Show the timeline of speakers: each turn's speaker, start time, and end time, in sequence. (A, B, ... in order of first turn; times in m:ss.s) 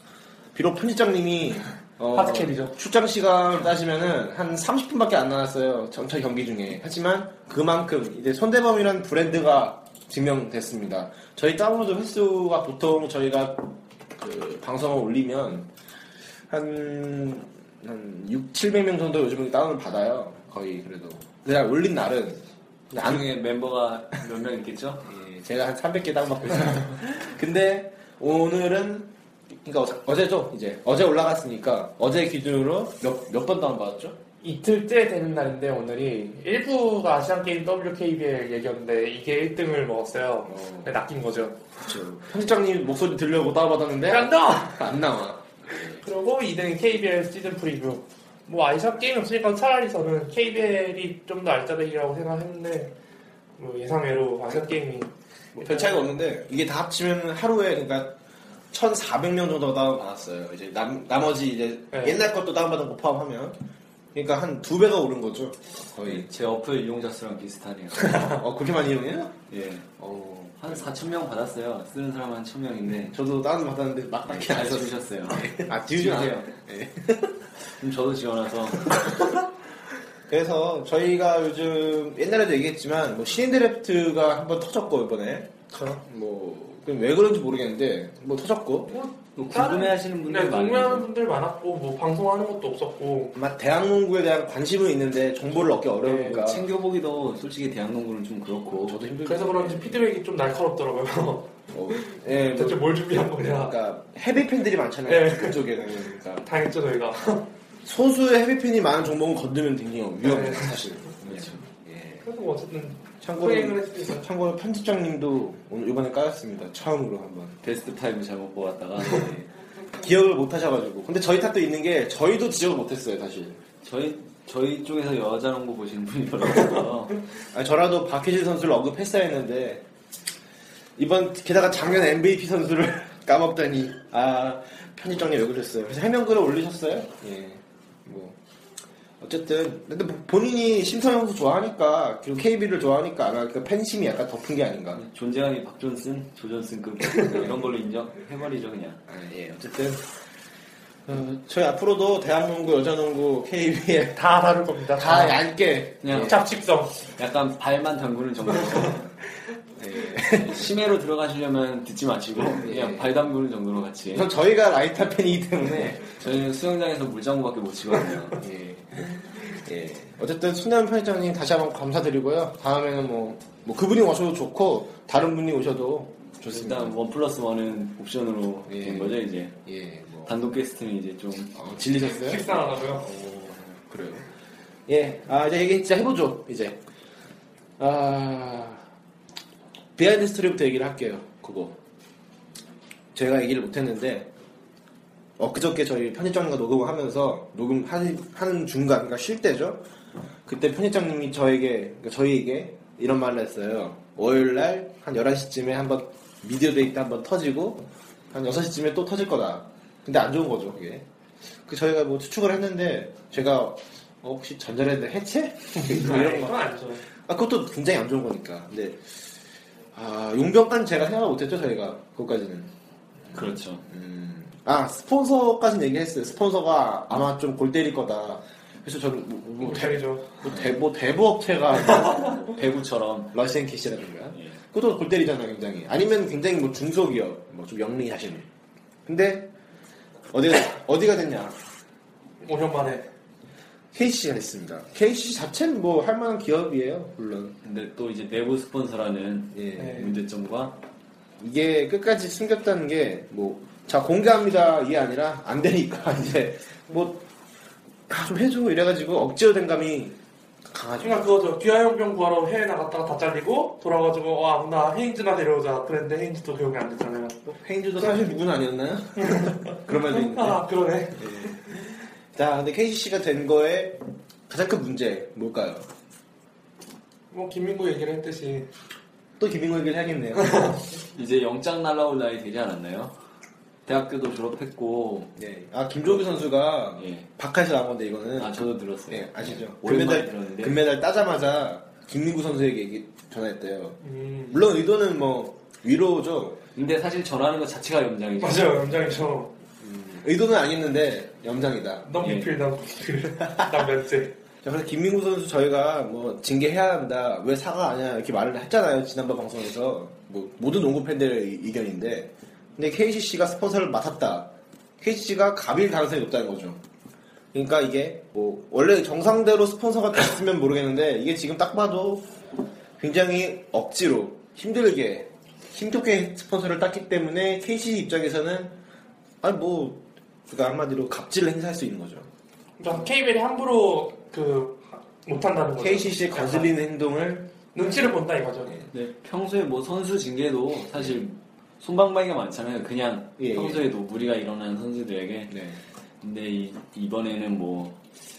0:00.5-0:15.7 A
0:02.1-0:02.7 B
0:16.5-0:23.3 A
0:22.9-0:25.1 C
0:25.0-0:34.2 A
0:34.4-0:41.6 B
0:40.5-0:40.9 A
0:41.8-0:46.0 A
0:44.1-0:44.8 B
0:46.0-0:52.9 B
0:53.6-0:56.1 B
0:55.5-0:58.2 A
0:58.7-1:03.6 A
1:01.9-1:02.2 B
1:04.1-1:06.3 A
1:06.0-1:08.3 C
1:08.2-1:09.4 A
1:09.5-1:09.9 C
1:10.0-1:10.9 A
1:10.6-1:13.1 C
1:13.0-1:17.5 A
1:14.3-1:16.5 C
1:17.8-1:19.1 C
1:20.3-1:28.9 A
1:25.7-1:26.0 B
1:28.9-1:33.3 B
1:29.4-1:31.1 C
1:33.3-1:36.7 A
1:35.9-1:39.0 C
1:38.8-1:40.1 A
1:39.2-1:43.7 B
1:41.7-1:46.4 A
1:45.1-1:45.6 B
1:46.4-1:47.5 B
1:47.8-1:52.2 A
1:50.2-1:50.8 B
1:51.3-1:51.6 C
1:52.2-1:54.2 B
1:53.2-1:57.6 A
1:57.6-1:59.5 C
1:59.9-2:03.6 A
2:03.8-2:07.2 C
2:07.5-2:09.8 A
2:11.0-2:18.4 A
2:19.2-2:25.0 A
2:24.9-2:29.0 C
2:29.1-2:30.0 A
2:31.0-2:34.2 A
2:34.1-2:35.4 B
2:34.9-2:36.4 A
2:36.0-2:36.4 C
2:36.2-2:37.0 B
2:37.2-2:39.1 C
2:39.8-2:40.7 A
2:40.3-2:44.3 C
2:42.4-2:43.1 A
2:44.1-2:46.1 A
2:46.1-2:48.4 C
2:48.4-2:56.9 A
2:56.5-2:59.6 C
2:58.7-3:00.4 A
3:00.2-3:01.5 C
3:01.5-3:04.3 A
3:02.0-3:03.1 B
3:04.9-3:06.8 A
3:07.8-3:08.8 A
3:10.0-3:11.8 A
3:13.1-3:14.3 A
3:15.4-3:19.9 A
3:20.4-3:31.1 A
3:31.6-3:39.3 A
3:35.8-3:37.0 B
3:39.9-3:42.7 A
3:43.3-3:52.5 A
3:43.3-3:43.8 C
3:49.6-3:50.2 B
3:52.0-3:53.3 C
3:53.3-3:58.5 A
3:59.0-3:59.5 A
4:00.3-4:01.6 A
4:02.4-4:03.1 B
4:03.9-4:07.6 A
4:07.6-4:10.8 C
4:09.5-4:10.1 A
4:09.8-4:10.1 B
4:11.4-4:17.2 A
4:18.1-4:20.2 A
4:20.7-4:21.2 A
4:21.0-4:27.4 B
4:27.4-4:30.6 A
4:29.2-4:31.6 B
4:31.2-4:35.9 A
4:37.3-4:38.7 B
4:39.4-4:40.8 A
4:40.4-4:40.8 B
4:41.1-4:43.1 C
4:43.8-4:45.3 C
4:45.4-4:56.6 A
4:47.0-4:47.3 C
4:48.4-4:50.8 C
4:54.0-4:54.6 B
4:56.7-4:59.0 C
4:58.4-4:59.5 B
4:59.8-5:02.1 A
5:02.0-5:04.3 B
5:02.2-5:02.5 C
5:04.6-5:16.8 A
5:17.5-5:22.3 A
5:23.0-5:28.8 A
5:29.4-5:32.3 A
5:32.8-5:36.7 B
5:35.8-5:37.5 A
5:37.7-5:38.8 B
5:38.9-5:45.6 C
5:41.0-5:41.2 A
5:43.4-5:43.9 A
5:45.5-5:45.8 A
5:46.2-5:48.0 C